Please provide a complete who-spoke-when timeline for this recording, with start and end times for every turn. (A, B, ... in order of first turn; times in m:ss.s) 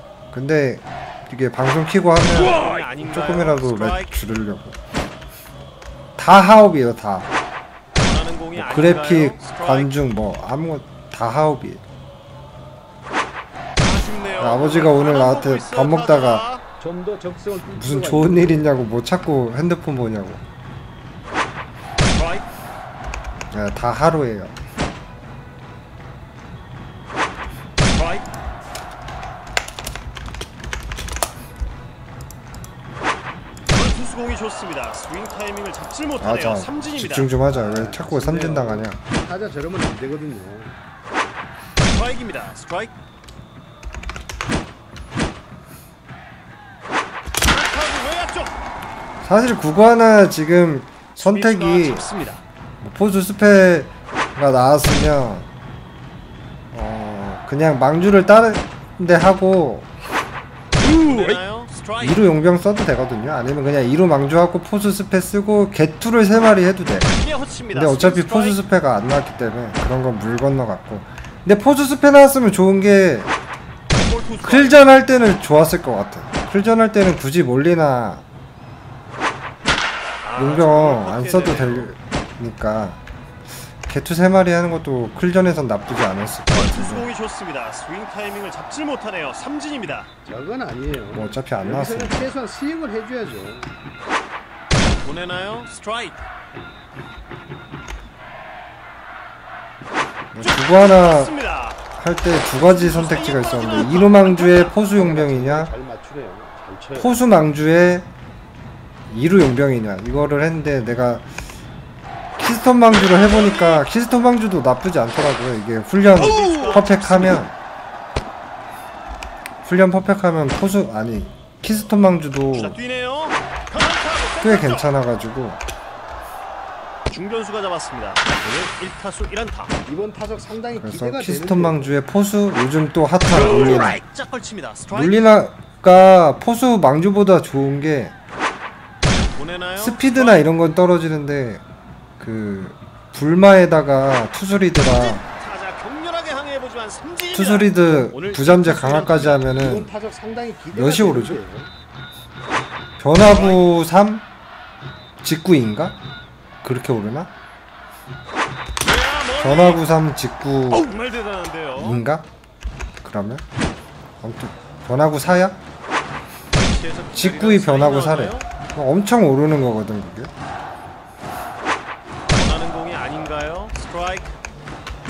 0:00.3-0:04.8 A
0:02.2-0:04.2 B
0:06.2-0:07.3 A
0:07.9-0:10.0 B
0:08.5-0:11.8 A
0:13.8-0:16.6 B
0:14.4-0:16.4 A
0:16.8-0:18.7 C
0:17.8-0:20.4 A
0:22.0-0:22.4 B
0:23.5-0:24.6 A
0:27.8-0:28.3 B
0:33.7-0:37.3 B
0:36.2-0:39.0 A
0:37.5-0:40.8 C
0:41.8-0:42.9 B
0:47.4-0:48.5 B
0:49.2-0:52.1 A
0:51.2-0:52.4 B
0:52.8-0:55.5 A
0:56.7-0:59.9 A
1:00.8-1:02.2 B
1:02.0-1:07.2 A
1:07.2-1:08.6 B
1:07.7-1:13.3 A
1:13.9-1:14.8 B
1:14.4-1:18.2 A
1:20.2-1:21.9 B
1:20.4-1:23.0 A
1:23.8-1:27.1 A
1:26.5-1:30.1 B
1:30.2-1:33.7 C
1:31.1-1:32.2 A
1:34.9-1:36.3 B
1:40.3-1:41.3 A
1:40.4-1:41.8 B
1:42.0-1:45.7 A
1:42.6-1:44.7 B
1:44.8-1:47.2 C
1:47.0-1:48.1 A
1:49.1-1:51.3 A
1:52.4-1:57.5 A
1:52.8-1:53.8 B
1:56.1-1:57.4 B
1:59.6-2:02.8 A
2:02.5-2:04.9 B
2:04.4-2:05.6 A
2:07.1-2:09.7 B
2:09.8-2:12.0 C
2:10.8-2:14.0 A
2:13.3-2:15.2 B
2:14.9-2:18.1 A
2:19.0-2:20.4 B
2:19.8-2:21.6 A
2:22.2-2:25.2 A
2:24.8-2:29.4 B
2:27.3-2:29.9 A
2:29.3-2:31.7 C
2:30.7-2:31.4 A
2:33.0-2:34.2 A
2:33.2-2:33.7 B
2:35.2-2:36.0 A
2:36.6-2:37.3 A
2:38.8-2:39.8 B
2:39.4-2:40.9 A
2:40.7-2:42.0 B
2:41.8-2:42.3 A
2:43.0-2:43.4 A
2:44.2-2:45.6 A
2:46.5-2:48.5 B
2:47.1-2:50.3 A
2:52.2-2:54.4 B